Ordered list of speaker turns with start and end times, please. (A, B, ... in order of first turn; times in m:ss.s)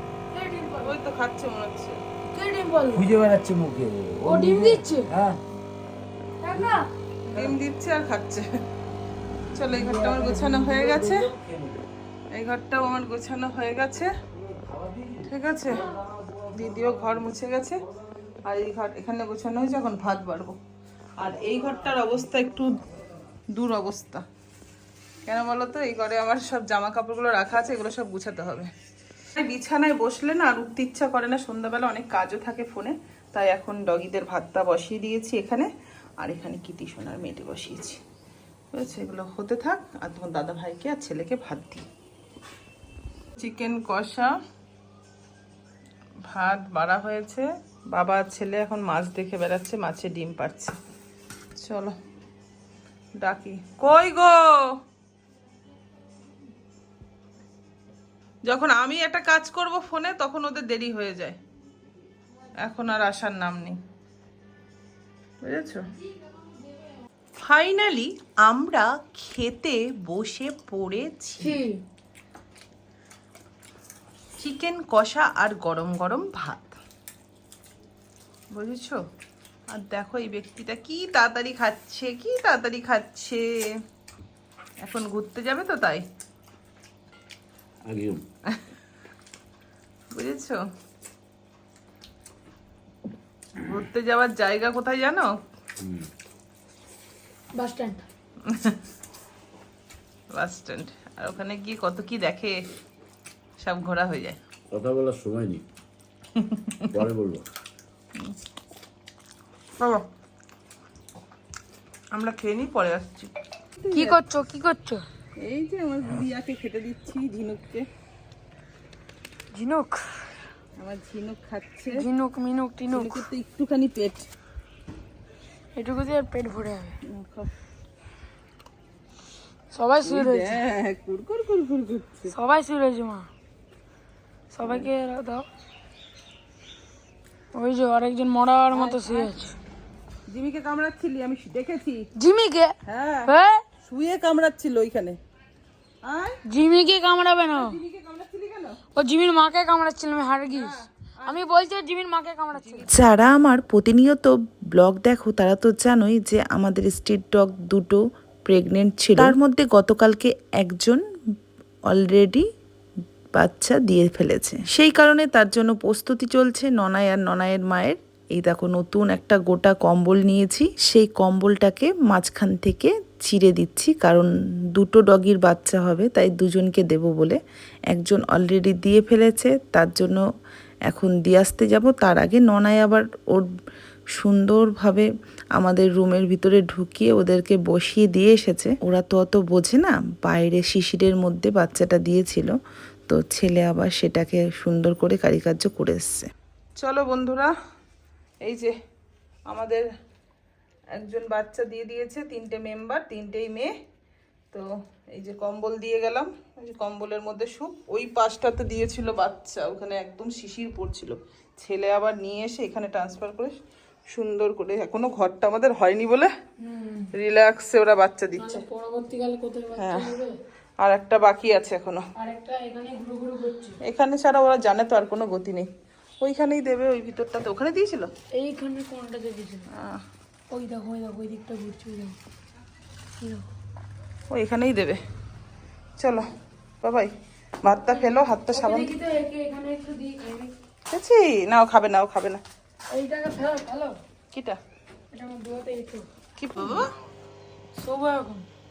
0:00.3-0:00.9 A
0:00.8-0:02.0 B
0:02.3-0:03.1 A
0:02.9-0:05.4 C
0:04.2-0:05.1 A
0:06.4-0:07.4 A
0:07.3-0:08.4 B
0:09.5-0:11.3 B
0:09.6-0:11.8 C
0:12.3-0:14.1 B
0:14.3-0:17.3 C
0:15.2-0:15.8 B
0:16.5-0:17.8 B
0:17.9-0:18.3 C
0:18.4-0:20.6 B
0:21.2-0:22.8 B
0:23.5-0:24.2 B
0:25.2-0:28.7 B
0:29.3-0:35.7 B
0:36.2-0:38.0 B
0:38.7-0:41.8 B
0:43.4-0:44.3 B
0:46.3-0:50.8 B
0:51.6-0:52.0 B
0:53.2-0:54.7 B
0:58.4-1:01.4 B
1:02.6-1:03.8 B
1:05.4-1:05.8 B
1:07.4-1:11.5 B
1:11.4-1:11.8 A
1:14.4-1:16.8 B
1:18.5-1:19.0 B
1:19.7-1:23.7 B
1:24.8-1:26.0 B
1:27.8-1:28.2 C
1:30.1-1:30.6 B
1:33.6-1:35.4 B
1:35.8-1:36.1 C
1:37.5-1:38.0 A
1:38.5-1:38.8 B
1:40.3-1:42.6 B
1:43.6-1:44.4 B
1:44.7-1:45.6 C
1:46.4-1:46.9 B
1:46.9-1:47.4 C
1:49.8-1:50.0 B
1:52.1-1:54.2 B
1:53.9-1:55.0 A
1:55.4-1:57.8 B
1:59.5-2:00.0 A
2:00.8-2:02.0 B
2:01.9-2:03.2 A
2:02.9-2:04.3 B
2:05.7-2:06.9 A
2:07.1-2:07.5 B
2:09.7-2:10.6 A
2:10.0-2:12.3 B
2:12.3-2:13.3 A
2:14.5-2:15.4 A
2:14.6-2:14.9 B
2:17.5-2:19.5 A
2:18.7-2:19.3 B
2:20.3-2:22.1 B
2:22.2-2:22.7 A
2:22.8-2:23.3 B
2:23.2-2:23.6 A
2:23.8-2:25.2 B
2:26.0-2:26.4 B
2:26.5-2:27.8 A
2:27.5-2:28.8 B
2:28.9-2:32.9 A
2:30.5-2:31.4 B
2:32.5-2:33.0 B
2:32.9-2:41.0 D
2:41.9-2:42.4 D
2:43.4-2:57.4 D
2:57.9-3:00.2 D
3:00.9-3:03.5 D
3:04.2-3:12.5 D
3:13.1-3:16.3 D
3:16.8-3:17.5 B
3:18.4-3:18.7 B
3:19.5-3:19.8 B
3:21.0-3:23.7 B
3:24.5-3:33.6 B
3:34.1-3:36.3 B
3:36.6-3:37.1 A
3:37.1-3:38.6 B
3:38.4-3:40.3 A
3:39.8-3:40.1 B
3:40.8-3:42.0 B
3:42.2-3:43.8 A
3:43.8-3:45.7 B
3:46.2-3:48.1 B
3:48.3-3:49.7 A
3:49.7-3:50.0 B
3:50.5-3:52.2 A
3:53.2-3:53.4 A
3:54.3-3:55.0 B
3:56.0-3:56.3 B
3:56.8-3:57.1 B
3:57.6-3:58.9 B
3:57.8-4:00.5 A
4:00.9-4:02.4 B
4:02.9-4:03.9 A
4:04.3-4:04.6 B
4:05.1-4:06.0 A
4:06.4-4:06.9 B
4:07.8-4:08.4 A